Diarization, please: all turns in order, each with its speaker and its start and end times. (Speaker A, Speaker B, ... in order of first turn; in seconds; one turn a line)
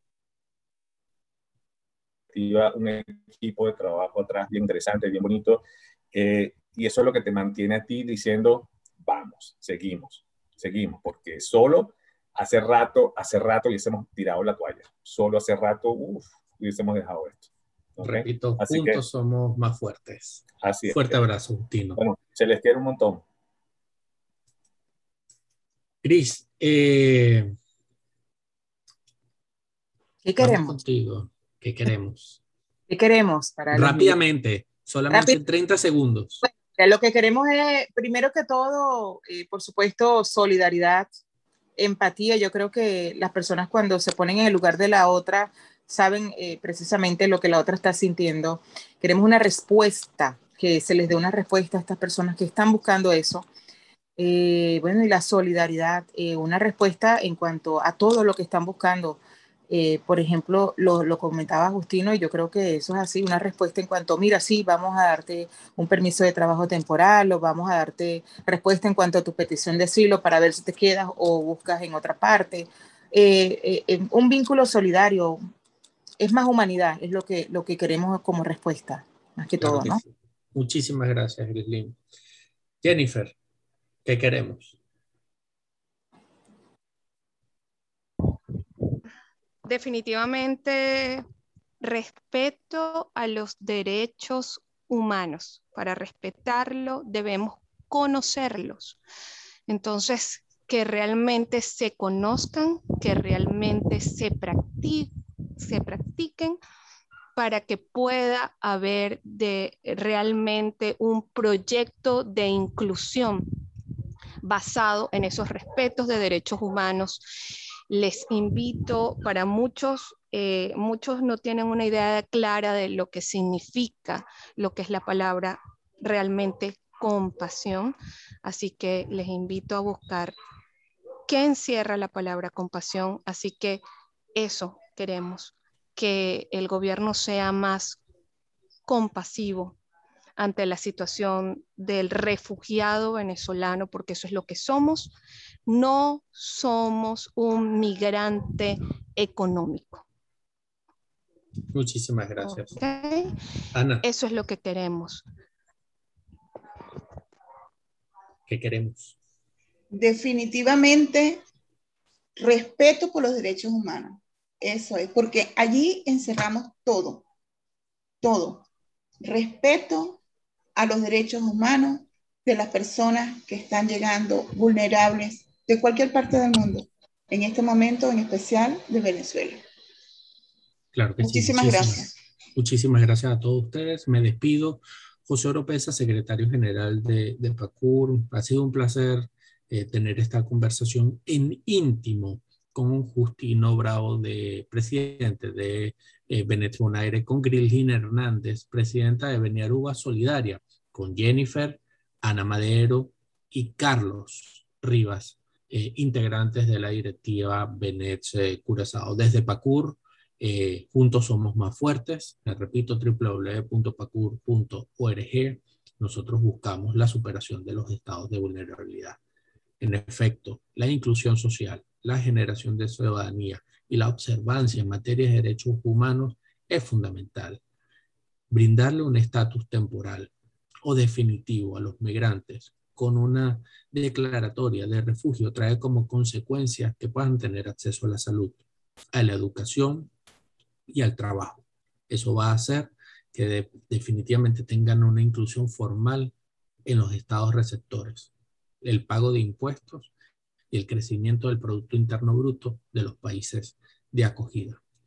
Speaker A: 2.3-19.0
Speaker B: 18.0-22.0
Speaker A: 20.6-21.2
Speaker A: 22.0-23.2
Speaker B: 26.0-27.6
Speaker C: 30.2-30.8
Speaker B: 30.4-32.4
Speaker C: 32.9-34.2
Speaker B: 33.7-36.4
Speaker C: 35.1-35.4
Speaker C: 36.4-41.1
Speaker C: 41.8-53.5
Speaker C: 54.2-59.2
Speaker C: 59.7-75.4
Speaker C: 76.2-80.0
Speaker B: 79.6-82.0
Speaker B: 82.8-83.4
Speaker B: 84.0-84.8
Speaker D: 89.7-91.2
Speaker D: 91.8-99.0
Speaker D: 99.7-106.6
Speaker D: 107.4-113.5
Speaker D: 114.4-117.2
Speaker D: 117.9-130.3
Speaker D: 131.3-133.8
Speaker D: 134.3-138.0
Speaker D: 138.9-139.8
Speaker D: 140.4-145.1
Speaker D: 145.7-150.1
Speaker B: 151.7-152.8
Speaker D: 152.4-153.3
Speaker B: 153.7-154.1
Speaker D: 154.0-155.2
Speaker B: 158.5-159.2
Speaker E: 159.9-161.4
Speaker E: 162.4-167.2
Speaker E: 168.2-168.7
Speaker E: 169.2-170.2
Speaker E: 170.8-179.6
Speaker B: 180.9-219.2
Speaker E: 181.2-182.1
Speaker B: 219.8-227.6
Speaker B: 228.5-230.3
Speaker B: 230.8-238.6
Speaker B: 239.1-240.1
Speaker B: 240.9-246.3
Speaker B: 246.9-248.3
Speaker B: 248.8-250.1
Speaker B: 250.7-254.8